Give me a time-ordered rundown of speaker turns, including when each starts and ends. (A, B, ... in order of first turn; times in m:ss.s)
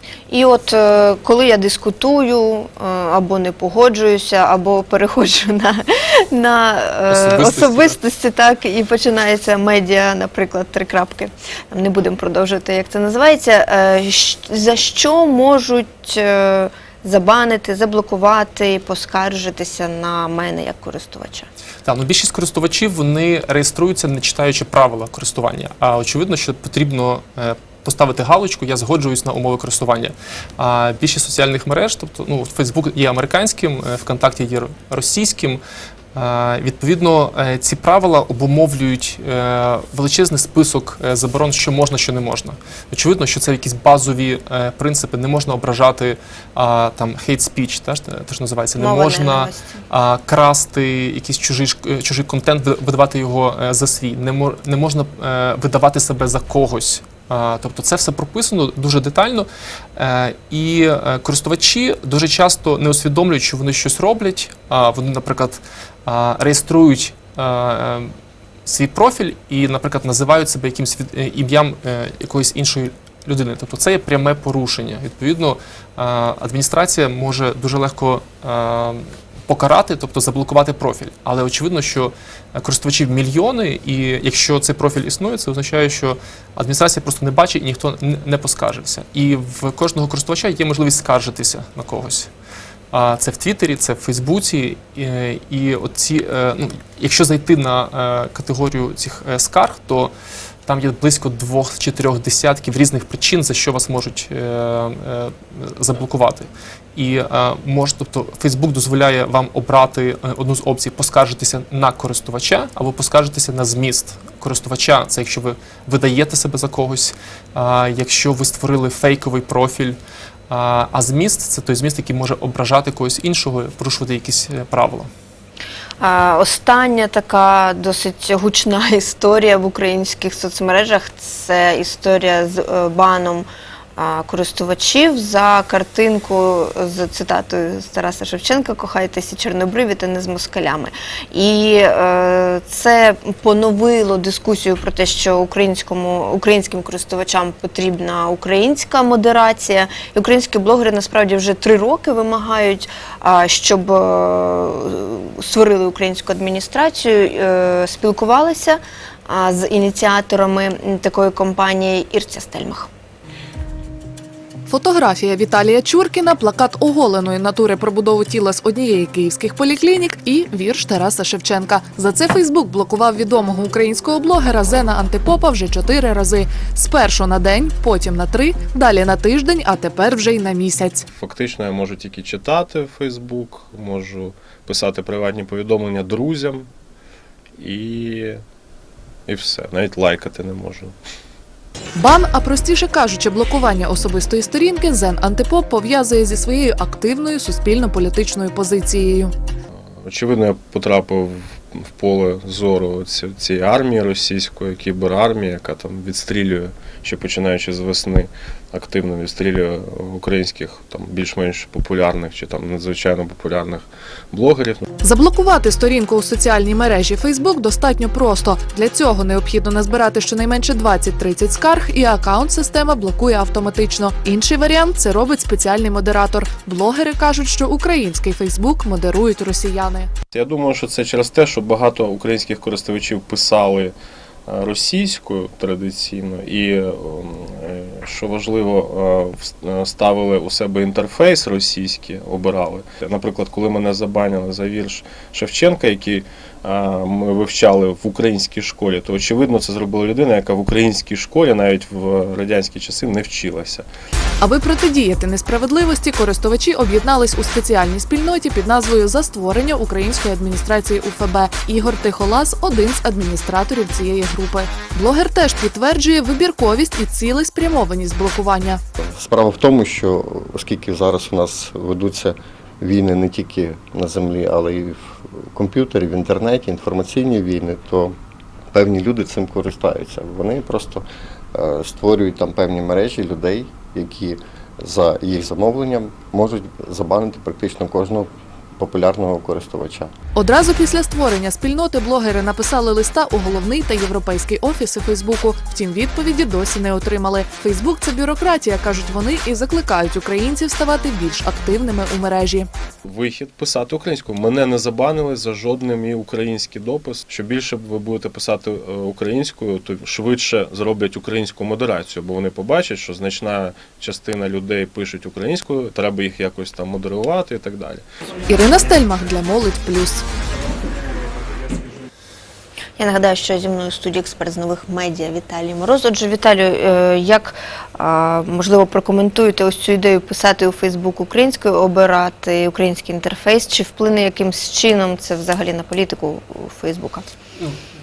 0:00.3-0:21.5 A
0:07.1-0:08.0 B
0:21.8-0:35.6 B
0:36.2-1:08.1 B
0:48.8-0:49.8 A
1:08.7-1:32.3 B
1:32.9-1:40.1 B
1:40.7-2:00.0 B
2:00.5-2:05.1 B
2:06.0-2:42.9 A
2:44.7-3:01.1 C
3:01.1-3:06.7 D
3:07.6-3:08.4 D
3:09.3-3:10.9 D
3:12.0-3:19.3 C
3:20.0-3:34.8 D
3:35.0-3:50.1 C
3:50.3-3:53.9 D
3:54.5-4:13.9 D
4:14.4-4:28.8 C
4:29.0-4:38.2 E
4:38.7-4:50.1 E
4:50.4-5:02.7 C
5:03.0-5:18.0 D
5:18.5-5:20.2 C
5:23.0-5:37.3 A